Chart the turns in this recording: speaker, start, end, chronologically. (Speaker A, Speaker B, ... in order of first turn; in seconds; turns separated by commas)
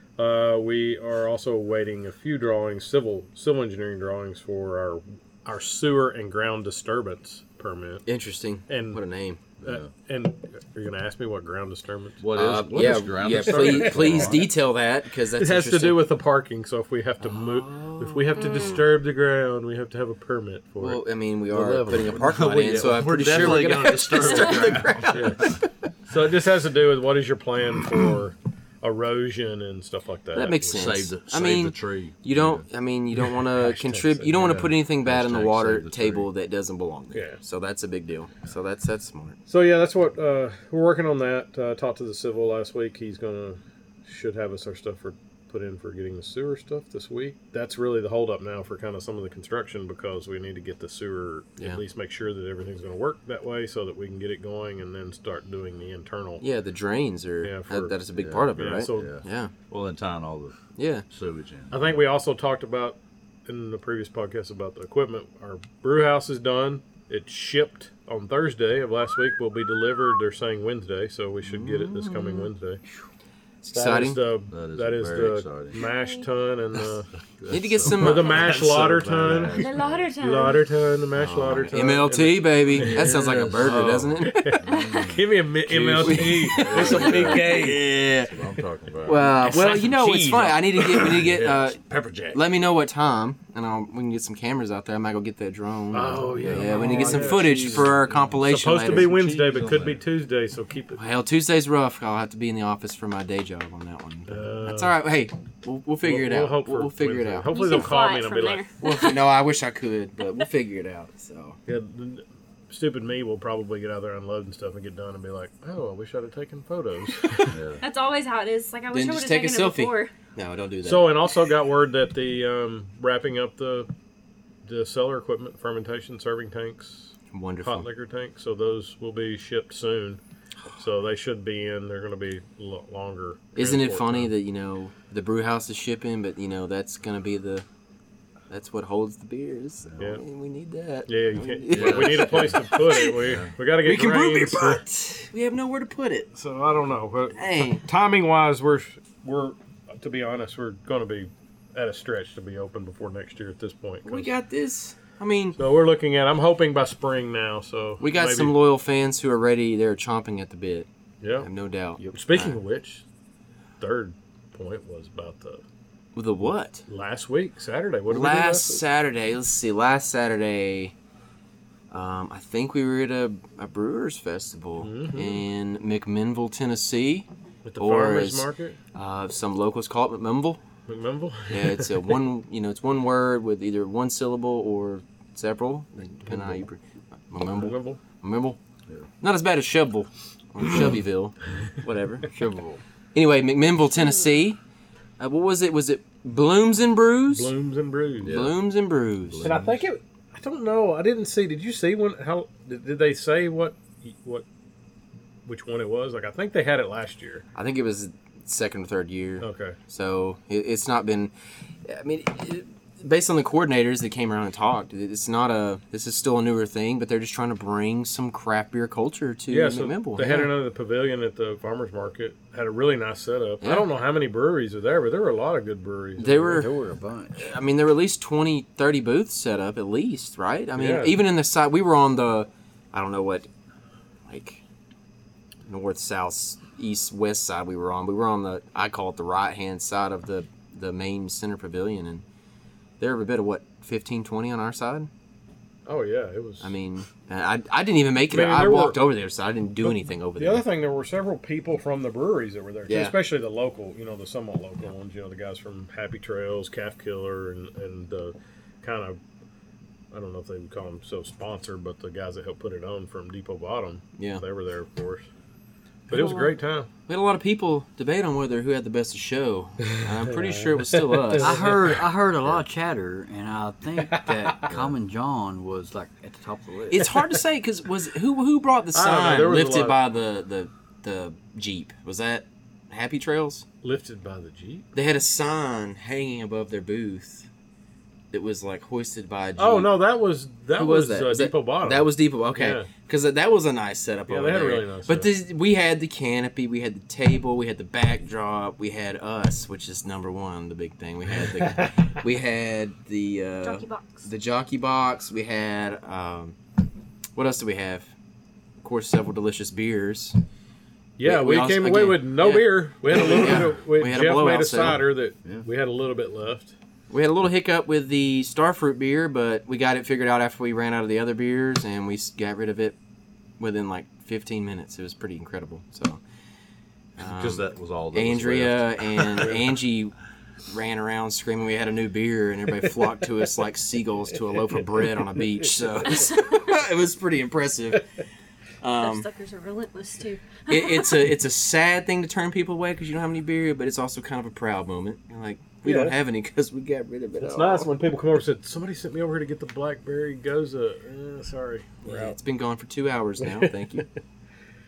Speaker A: 0.2-8.0, Speaker B: 8.1-9.4, Speaker A: 8.7-9.0, Speaker C: 9.6-9.9, Speaker A: 9.6-12.2, Speaker C: 12.2-14.5, Speaker B: 12.3-16.1, Speaker A: 13.2-14.5, Speaker A: 15.3-22.1, Speaker B: 17.2-18.8, Speaker D: 18.3-18.8, Speaker B: 20.8-25.5, Speaker C: 22.0-25.6, Speaker A: 25.1-25.5, Speaker A: 26.1-30.9, Speaker B: 30.3-39.4, Speaker C: 30.6-32.7, Speaker A: 33.5-34.7, Speaker C: 35.0-36.3, Speaker A: 37.1-37.4, Speaker A: 39.5-56.4, Speaker B: 56.4-59.5, Speaker A: 57.4-58.0, Speaker C: 58.2-60.5, Speaker A: 58.6-59.1, Speaker B: 60.8-61.0, Speaker C: 61.1-62.0, Speaker A: 61.7-72.8, Speaker B: 73.6-74.2, Speaker A: 73.7-77.1, Speaker C: 74.5-75.8, Speaker D: 75.8-76.3, Speaker C: 77.4-80.1, Speaker B: 77.5-79.3, Speaker A: 77.9-79.6, Speaker D: 79.5-80.7, Speaker A: 80.2-87.8, Speaker B: 81.2-84.6, Speaker C: 82.7-92.4, Speaker B: 85.9-88.3, Speaker B: 89.0-91.8, Speaker A: 89.4-90.6, Speaker B: 92.3-99.1, Speaker A: 95.9-97.9, Speaker C: 96.4-100.0, Speaker A: 98.5-101.0, Speaker B: 101.0-107.8, Speaker A: 104.3-105.0, Speaker A: 106.0-108.7, Speaker D: 107.5-109.2, Speaker B: 108.8-111.6, Speaker A: 111.7-117.6, Speaker C: 117.5-117.8, Speaker D: 117.8-120.1, Speaker B: 118.9-121.1, Speaker A: 120.8-123.9, Speaker A: 124.7-130.2, Speaker B: 127.3-127.9, Speaker A: 130.8-134.3, Speaker B: 133.6-137.7, Speaker B: 138.5-146.3, Speaker C: 139.8-140.2, Speaker A: 141.1-144.8, Speaker C: 141.7-143.5, Speaker A: 146.3-154.3, Speaker B: 147.3-147.8, Speaker B: 154.1-155.6, Speaker A: 155.6-158.6, Speaker B: 158.0-160.9, Speaker A: 161.2-161.5, Speaker B: 161.4-162.6, Speaker A: 162.1-163.0, Speaker A: 163.8-165.6, Speaker B: 166.2-166.8, Speaker A: 166.9-168.8, Speaker B: 168.1-170.9, Speaker B: 171.9-180.6, Speaker A: 174.8-175.4, Speaker A: 177.7-178.8, Speaker A: 180.9-181.9, Speaker B: 181.5-188.6, Speaker A: 186.3-186.6, Speaker A: 187.5-188.0, Speaker B: 189.2-192.3, Speaker E: 192.3-192.8, Speaker B: 193.1-194.6, Speaker B: 195.2-197.5, Speaker A: 197.3-198.4, Speaker C: 198.2-198.6, Speaker B: 198.2-199.6, Speaker C: 199.3-199.8, Speaker A: 199.4-204.4, Speaker A: 205.5-207.4, Speaker B: 207.6-211.3, Speaker A: 209.4-209.8, Speaker B: 211.8-220.5, Speaker A: 219.5-226.6, Speaker B: 226.2-226.7, Speaker E: 226.5-227.5, Speaker B: 227.3-233.5, Speaker A: 230.8-231.2, Speaker B: 234.3-234.6, Speaker B: 235.7-242.2, Speaker B: 243.0-245.1, Speaker A: 245.9-246.7, Speaker B: 246.6-250.6, Speaker A: 248.3-249.0, Speaker A: 250.4-259.2, Speaker B: 252.9-253.2, Speaker A: 260.1-265.3, Speaker B: 264.2-264.4, Speaker A: 266.1-266.9, Speaker D: 266.1-266.6, Speaker B: 267.1-272.6, Speaker A: 270.4-272.0, Speaker E: 271.3-277.1, Speaker A: 274.1-274.6, Speaker B: 276.9-283.6, Speaker A: 278.9-280.0, Speaker A: 283.8-284.9, Speaker B: 284.9-287.5, Speaker B: 288.3-289.9, Speaker A: 289.6-292.9, Speaker B: 290.7-306.6, Speaker A: 294.3-295.3, Speaker D: 303.6-304.3, Speaker B: 307.4-308.1, Speaker B: 308.8-310.4, Speaker A: 311.2-316.7, Speaker B: 311.2-315.1, Speaker B: 317.1-323.0, Speaker B: 323.6-326.2, Speaker B: 327.2-330.1, Speaker C: 327.2-329.6, Speaker B: 330.7-338.1, Speaker D: 336.1-336.7, Speaker B: 338.8-339.3, Speaker D: 339.0-341.3, Speaker B: 340.7-347.9, Speaker A: 345.9-346.2, Speaker A: 347.4-352.4, Speaker B: 352.0-354.1, Speaker A: 353.4-354.0